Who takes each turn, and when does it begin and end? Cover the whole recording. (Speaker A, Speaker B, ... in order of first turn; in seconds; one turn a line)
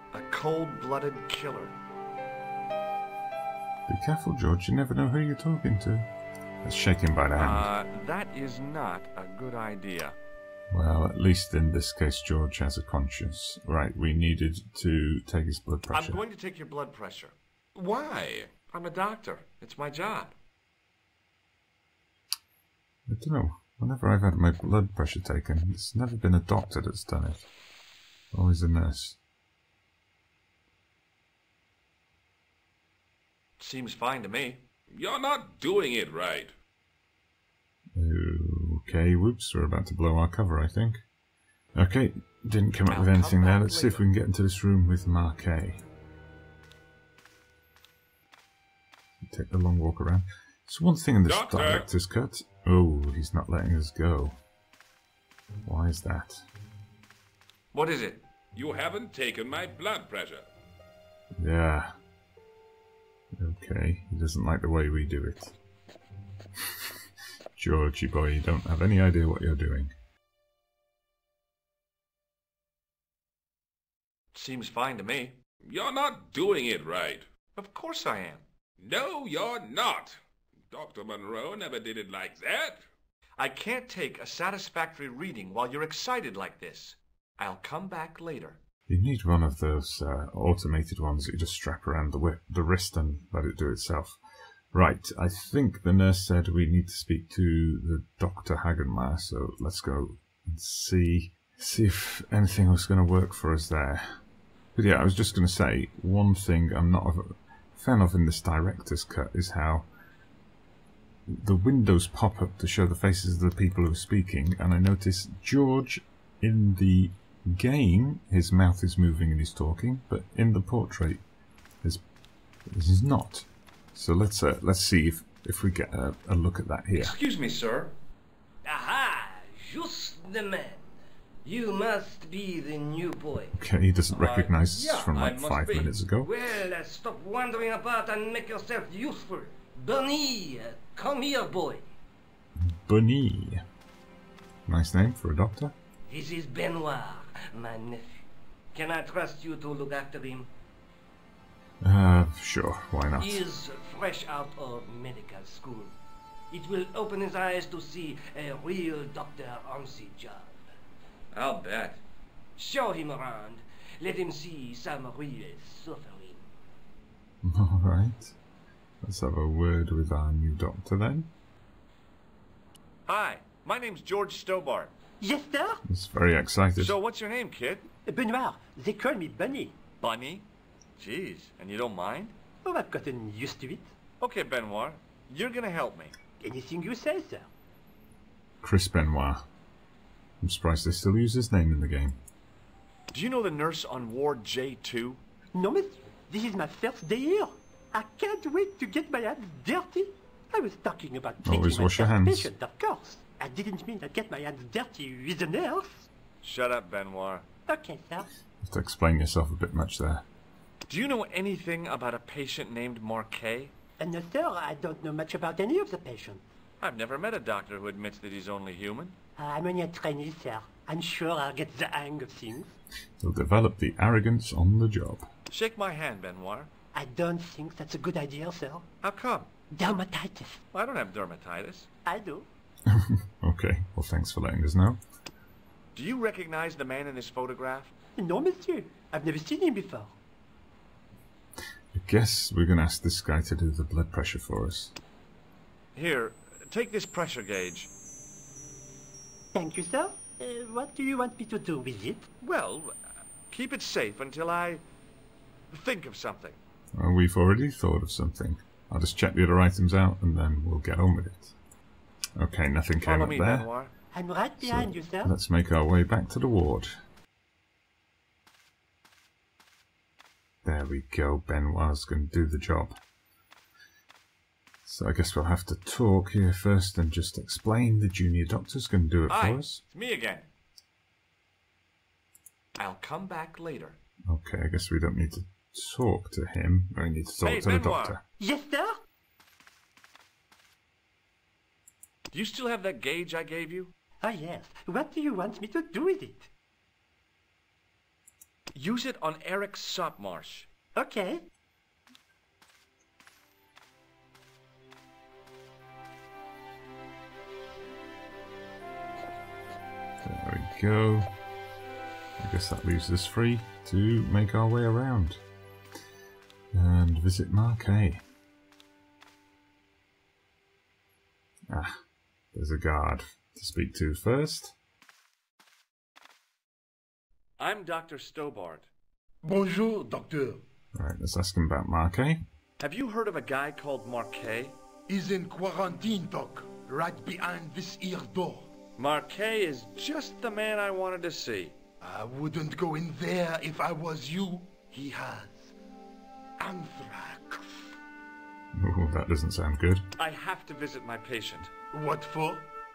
Speaker A: 0.1-1.8
Speaker B: 3.9-6.1
Speaker B: 6.6-7.7
Speaker A: 7.3-10.2
Speaker B: 10.7-16.2
Speaker A: 15.9-17.3
Speaker C: 17.7-18.5
Speaker A: 18.5-20.3
Speaker B: 23.1-27.5
Speaker B: 28.3-29.2
Speaker A: 33.6-34.6
Speaker C: 34.9-36.5
Speaker B: 38.0-41.0
Speaker B: 41.7-45.8
Speaker A: 42.9-44.0
Speaker B: 49.3-54.4
Speaker C: 51.2-51.9
Speaker B: 55.6-56.4
Speaker A: 57.7-58.2
Speaker C: 58.5-60.5
Speaker B: 61.4-61.9
Speaker B: 63.3-65.5
Speaker B: 67.5-69.9
Speaker A: 74.3-75.4
Speaker C: 75.6-77.3
Speaker A: 77.5-78.4
Speaker C: 78.8-80.2
Speaker C: 80.7-82.8
Speaker A: 83.4-88.6
Speaker B: 88.9-94.2
Speaker B: 94.7-104.2
Speaker B: 104.7-109.9
Speaker B: 111.3-121.2
Speaker B: 122.7-127.2
Speaker A: 126.9-127.9
Speaker D: 128.6-133.6
Speaker B: 133.5-136.4
Speaker A: 134.1-135.9
Speaker D: 136.2-141.9
Speaker B: 142.6-143.6
Speaker B: 144.7-145.7
Speaker D: 146.1-150.5
Speaker B: 151.8-153.4
Speaker D: 153.2-155.9
Speaker D: 156.5-160.6
Speaker A: 161.3-162.0
Speaker D: 162.6-166.4
Speaker B: 167.4-168.3
Speaker B: 169.0-171.3
Speaker A: 173.1-174.9
Speaker E: 175.2-175.8
Speaker B: 175.8-176.9
Speaker A: 176.8-177.9
Speaker E: 178.0-179.8
Speaker A: 180.0-182.3
Speaker E: 182.6-183.9
Speaker A: 184.2-186.2
Speaker E: 186.4-187.5
Speaker B: 188.6-189.4
Speaker B: 190.4-192.2
Speaker A: 193.1-195.2
Speaker E: 195.5-206.1
Speaker B: 201.4-202.5
Speaker A: 206.4-207.5
Speaker E: 207.7-208.3
Speaker B: 208.6-210.2
Speaker A: 210.9-213.7
Speaker E: 214.0-216.5
Speaker A: 216.8-219.2
Speaker E: 219.4-222.8
Speaker B: 223.2-225.3
Speaker A: 225.5-226.7
Speaker E: 226.9-228.9
Speaker A: 229.0-229.5
Speaker E: 229.7-230.6
Speaker A: 230.7-231.9
Speaker E: 232.1-232.5
Speaker B: 232.9-235.0
Speaker A: 235.9-237.9
Speaker E: 238.2-240.2
Speaker B: 241.9-244.9
Speaker A: 245.9-247.9
Speaker E: 249.5-252.3
Speaker A: 252.4-252.9
Speaker A: 253.5-254.8
Speaker A: 255.7-256.6
Speaker B: 256.9-261.5
Speaker B: 262.4-263.7
Speaker A: 263.0-263.9
Speaker E: 264.1-265.3
Speaker B: 264.6-266.9
Speaker B: 270.6-272.9
Speaker B: 274.8-279.8
Speaker A: 279.3-280.5
Speaker A: 282.8-284.0
Speaker B: 284.3-288.2
Speaker A: 287.4-288.2
Speaker E: 288.4-289.0
Speaker A: 292.3-293.9
Speaker E: 294.2-296.5
Speaker A: 298.7-300.7
Speaker E: 300.9-301.4
Speaker B: 310.2-311.3
Speaker B: 312.4-315.4
Speaker B: 316.7-318.2
Speaker B: 321.7-322.0
Speaker B: 322.5-324.8
Speaker A: 327.6-328.9
Speaker F: 329.4-330.6
Speaker B: 330.9-332.4
Speaker A: 332.8-334.8
Speaker F: 335.1-338.7
Speaker A: 339.0-341.7
Speaker F: 342.0-345.7
Speaker F: 346.6-347.9
Speaker B: 348.7-350.0
Speaker A: 350.2-351.7
Speaker F: 351.9-352.7